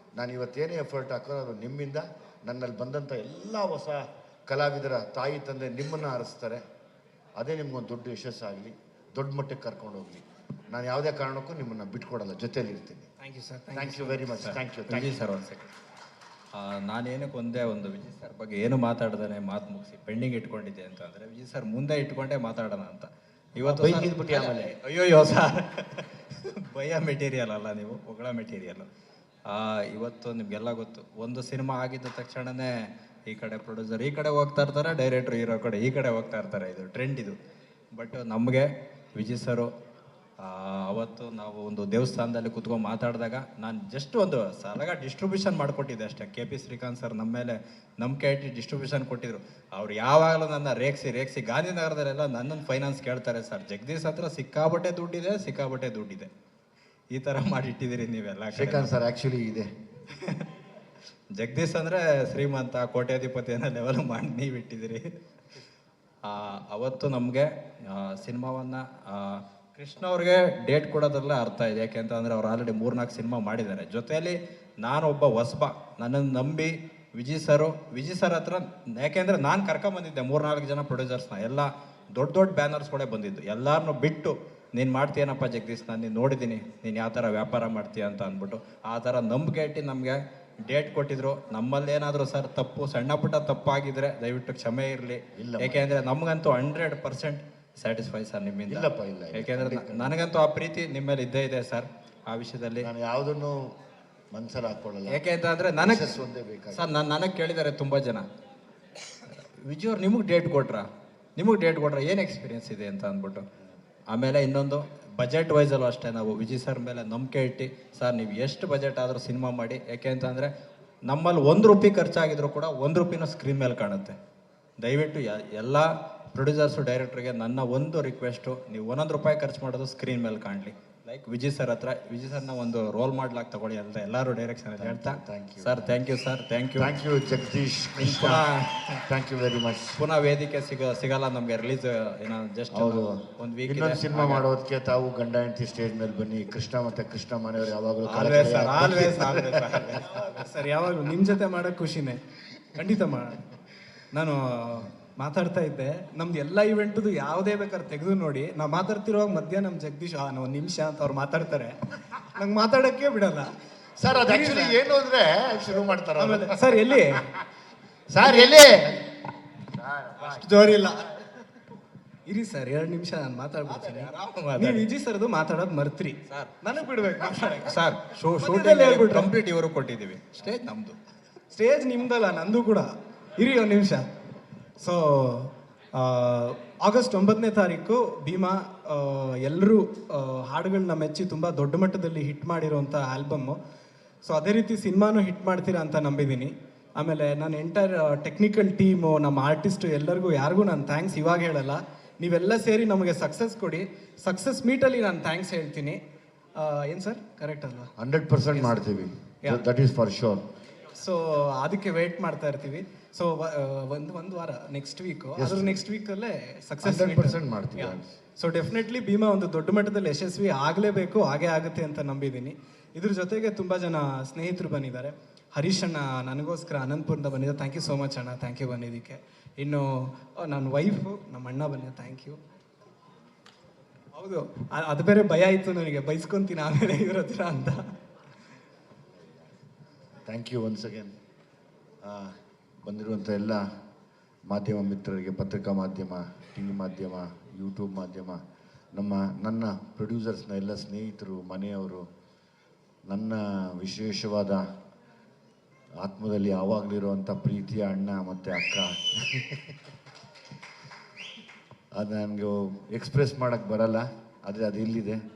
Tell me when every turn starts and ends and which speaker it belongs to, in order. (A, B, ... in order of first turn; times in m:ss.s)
0:00.2-0:06.6 A
0:07.4-0:13.1 A
0:13.2-0:14.2 B
0:13.7-0:15.2 A
0:14.4-0:15.7 C
0:16.5-0:28.9 C
0:23.7-0:24.7 A
0:29.5-0:32.7 C
0:33.3-0:37.4 C
0:37.9-0:39.7 C
0:40.4-0:56.3 C
0:57.1-0:58.9 C
0:58.5-0:59.7 A
1:00.1-1:00.4 C
1:01.4-1:05.1 C
1:06.2-1:42.9 C
1:35.3-1:36.0 A
1:38.7-1:40.2 A
1:42.8-1:43.6 A
1:44.3-1:45.2 A
1:45.1-1:46.2 C
1:45.8-1:46.9 A
1:46.7-1:48.2 C
1:49.3-1:53.4 C
1:54.1-2:00.5 C
2:01.1-2:04.2 C
2:04.8-2:17.0 C
2:14.8-2:15.8 A
2:16.8-2:18.5 A
2:18.0-2:19.0 C
2:19.1-2:20.0 A
2:20.0-2:24.4 C
2:22.7-2:30.2 A
2:28.0-2:30.2 C
2:30.1-2:32.2 B
2:32.7-2:33.4 B
2:34.1-2:43.5 B
2:44.0-2:47.0 A
2:44.1-2:44.8 B
2:46.2-2:47.3 B
2:48.1-2:50.6 A
2:48.2-2:48.6 B
2:50.2-2:51.2 B
2:52.2-2:57.8 B
2:53.8-2:54.9 C
2:56.3-2:56.6 C
2:57.6-3:01.0 C
2:58.4-2:59.3 B
3:01.5-3:04.1 B
3:04.8-3:13.6 B
3:14.2-3:26.0 B
3:26.6-3:27.9 B
3:28.0-3:30.4 A
3:30.9-3:52.4 B
3:35.4-3:35.8 A
3:36.8-3:38.1 A
3:54.1-3:57.9 B
3:59.2-3:59.5 A
4:00.2-4:01.1 A
4:02.0-4:02.3 A
4:02.8-4:03.6 A
4:04.5-4:08.4 A
4:08.9-4:12.0 A
4:13.1-4:14.6 A
4:16.0-4:19.8 A
4:21.9-4:25.2 A